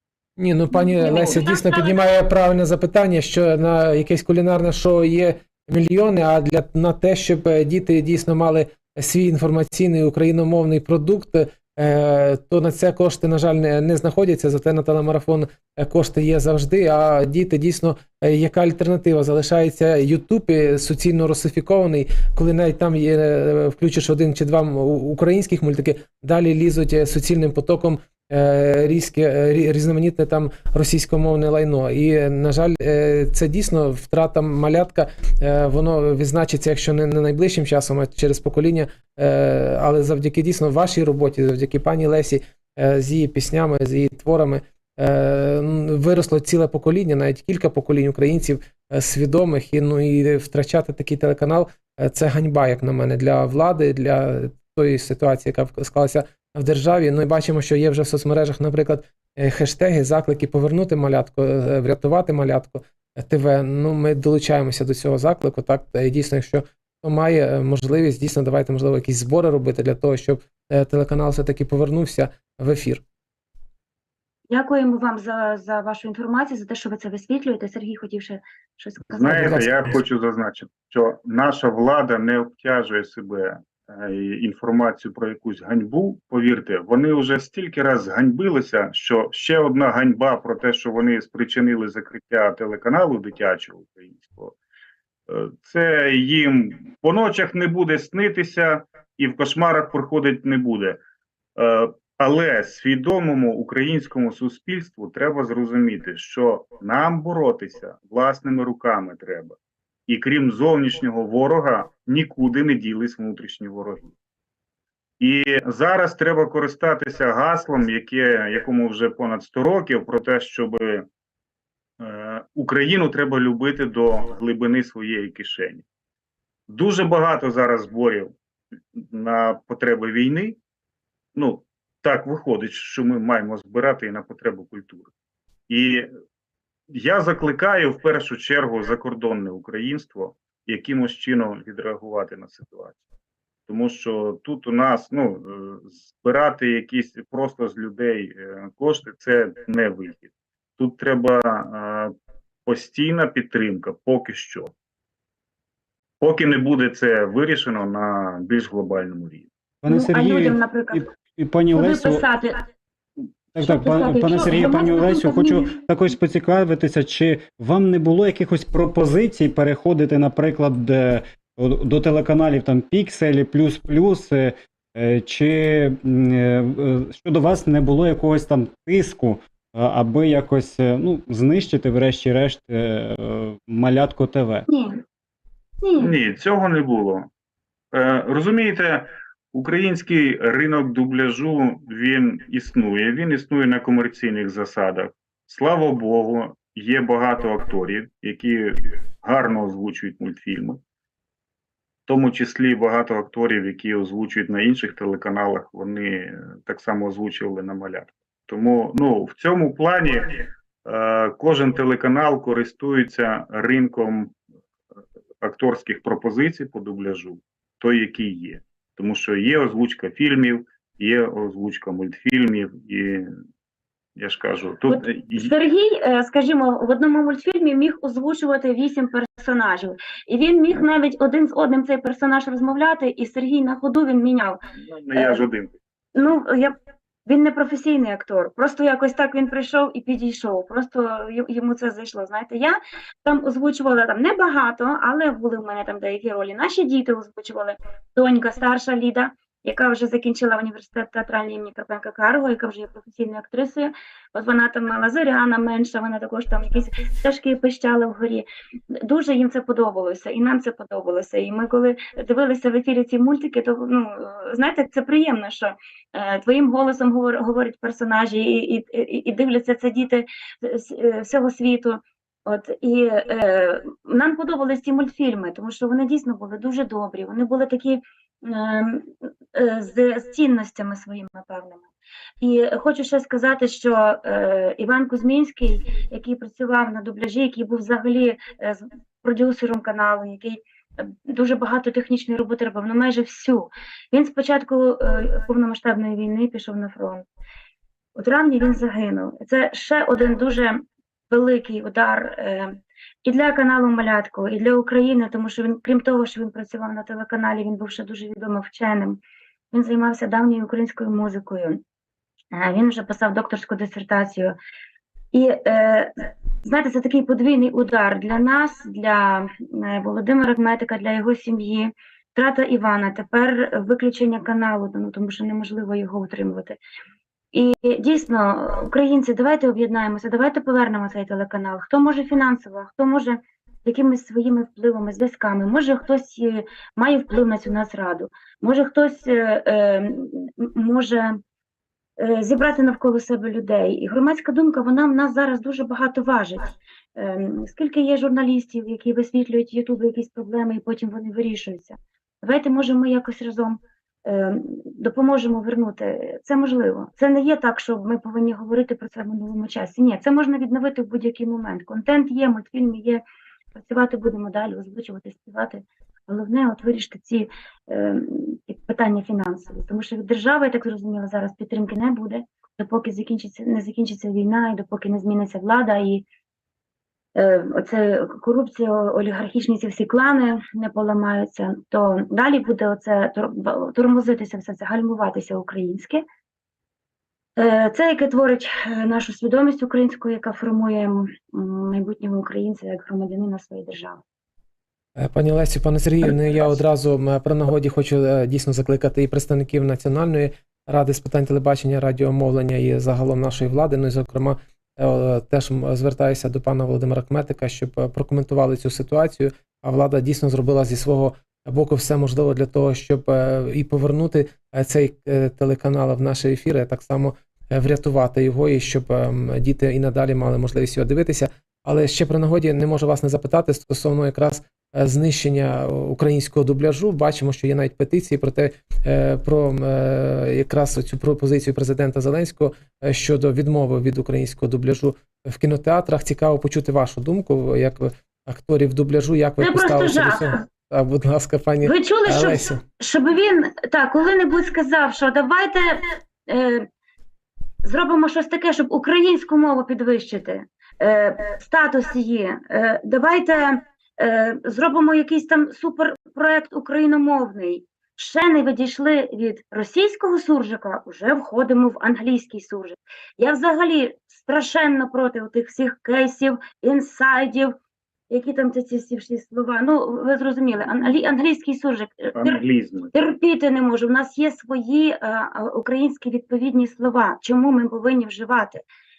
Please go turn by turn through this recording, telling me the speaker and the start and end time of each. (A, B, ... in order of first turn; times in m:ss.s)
0:00.4-1:13.0 A
0:00.7-0:02.0 B
1:14.5-1:19.7 B
1:19.1-1:34.6 C
1:19.4-1:19.7 A
1:35.3-1:41.0 C
1:41.6-1:49.6 C
1:50.1-1:54.1 C
1:55.2-2:01.1 C
2:02.0-2:05.8 C
2:06.7-2:08.3 C
2:08.9-2:10.6 C
2:11.3-2:15.1 C
2:15.7-2:16.1 C
2:16.9-2:23.0 C
2:23.7-2:32.1 C
2:32.6-2:34.7 C
2:36.2-2:39.5 C
2:39.8-2:42.2 D
2:39.9-2:41.1 B
2:41.7-2:42.6 B
2:43.5-3:04.6 D
2:43.6-2:45.8 B
3:04.7-3:05.0 B
3:05.8-3:06.1 B
3:06.0-3:07.3 C
3:07.9-3:20.8 C
3:22.1-3:34.4 C
3:35.4-3:43.3 C
3:44.2-3:45.5 C
3:44.9-3:54.6 B
3:54.7-3:55.8 C
3:55.1-3:55.4 B
3:56.1-4:41.8 B
4:42.4-4:57.2 B
4:58.2-5:09.2 B
5:09.7-5:11.8 B
5:12.5-5:14.6 B
5:15.3-5:26.8 B
5:27.5-5:41.4 B
5:42.2-6:03.2 B
6:03.7-6:16.2 B
6:17.3-6:26.2 B
6:27.6-6:34.2 B
6:35.2-7:22.8 A
7:19.6-7:20.6 B
7:21.8-7:26.9 B
7:27.8-7:47.7 B
7:48.3-7:52.6 B
7:52.3-7:53.1 C
7:53.1-7:58.8 B